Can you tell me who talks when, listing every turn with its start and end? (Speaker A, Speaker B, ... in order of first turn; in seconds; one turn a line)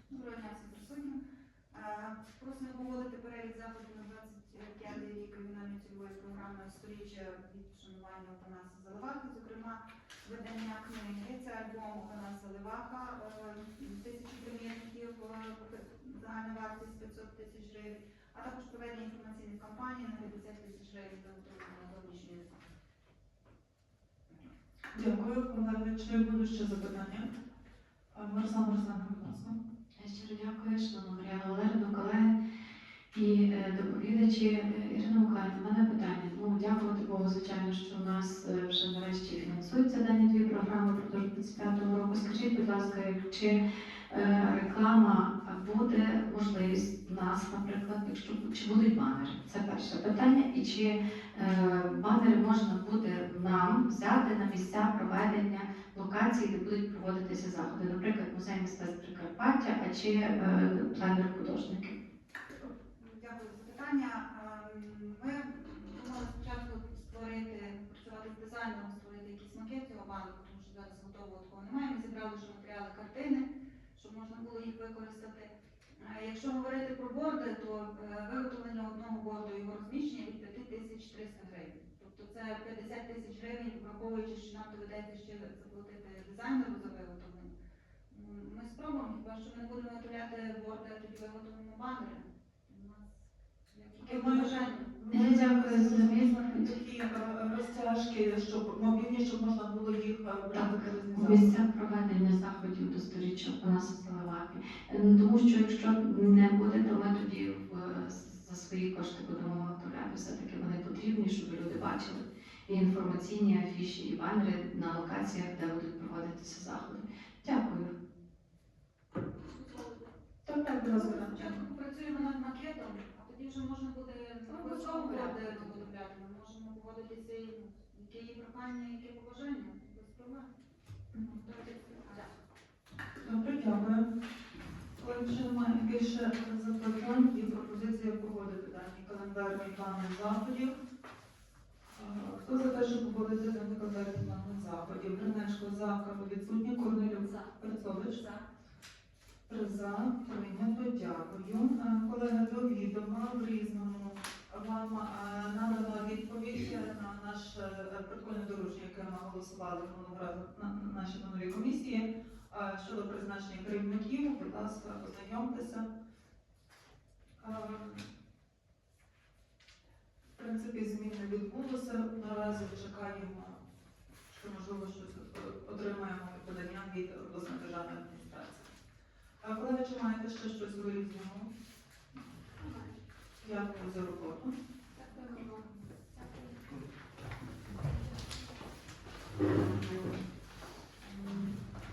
Speaker A: 0.1-1.2
Speaker A: 1.7-22.6
Speaker B: 24.9-27.3
Speaker B: 28.1-29.6
Speaker C: 30.0-32.4
Speaker C: 33.1-61.9
Speaker A: 62.6-87.5
Speaker A: 88.1-95.0
Speaker B: 94.0-101.6
Speaker C: 95.1-96.8
Speaker C: 100.5-117.9
Speaker B: 120.5-121.6
Speaker A: 120.9-130.5
Speaker C: 125.0-125.8
Speaker B: 131.1-131.4
Speaker A: 131.4-132.3
Speaker B: 133.2-134.1
Speaker B: 135.0-140.8
Speaker B: 141.9-148.2
Speaker B: 149.5-165.9
Speaker B: 167.4-168.1
Speaker B: 170.4-173.6
Speaker B: 174.3-178.7
Speaker B: 179.4-181.5
Speaker B: 183.4-184.5
Speaker A: 185.0-185.4
Speaker A: 191.0-191.6